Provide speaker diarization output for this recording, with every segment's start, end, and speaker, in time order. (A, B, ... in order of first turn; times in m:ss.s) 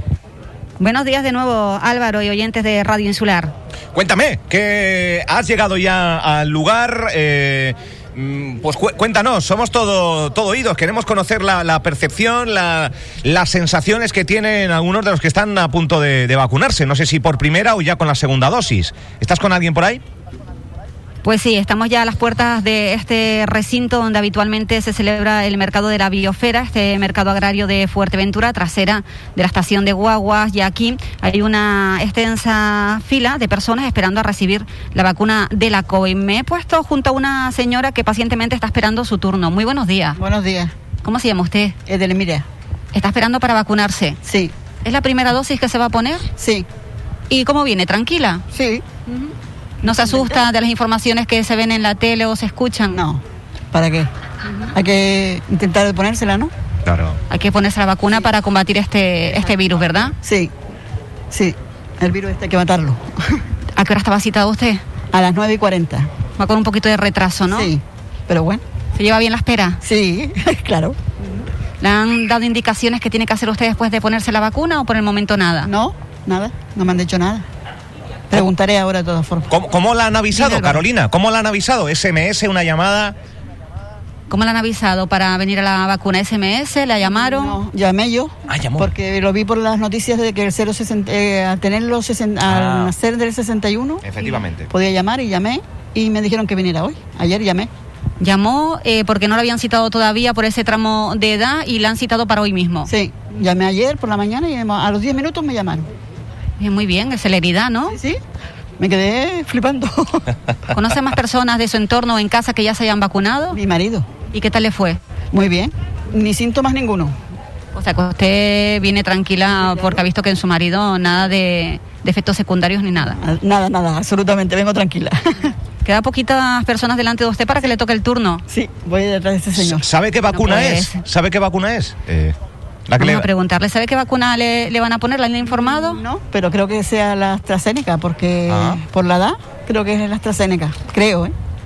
0:00.8-0:03.5 A
0:03.9-0:20.0 B
0:21.2-0:40.2 A
0:40.2-0:40.7 C
0:41.0-0:41.7 A
0:41.9-0:42.4 C
0:42.9-0:44.2 A
0:44.2-0:44.5 C
0:44.8-0:46.3 A
0:46.4-0:46.7 C
0:47.3-0:48.4 A
0:48.5-0:48.8 C
0:49.1-0:53.0 A
0:52.9-0:54.1 C
0:54.7-0:56.5 C
0:56.8-0:57.2 B
0:57.3-1:00.2 A
1:00.2-1:00.5 C
1:01.3-1:03.4 C
1:03.8-1:04.8 A
1:05.1-1:06.1 C
1:06.4-1:07.7 A
1:07.5-1:08.6 C
1:08.9-1:09.8 A
1:09.8-1:11.0 C
1:11.8-1:15.7 A
1:15.6-1:17.4 C
1:18.3-1:19.5 C
1:19.5-1:23.1 B
1:20.3-1:20.8 C
1:24.3-1:27.6 A
1:27.3-1:34.0 C
1:28.5-1:28.9 B
1:32.4-1:32.9 B
1:34.0-1:34.7 B
1:34.7-1:37.7 C
1:38.2-1:42.9 A
1:42.9-1:45.9 C
1:46.6-1:48.0 A
1:48.8-1:50.2 C
1:50.7-1:53.6 A
1:53.5-1:54.1 C
1:54.3-1:55.0 A
1:55.3-1:57.2 C
1:57.7-2:03.2 A
2:03.2-2:05.5 C
2:05.8-2:08.4 A
2:08.5-2:09.8 C
2:09.6-2:12.3 B
2:10.3-2:11.0 A
2:12.9-2:13.3 B
2:13.0-2:16.0 A
2:15.9-2:21.3 C
2:18.5-2:18.8 B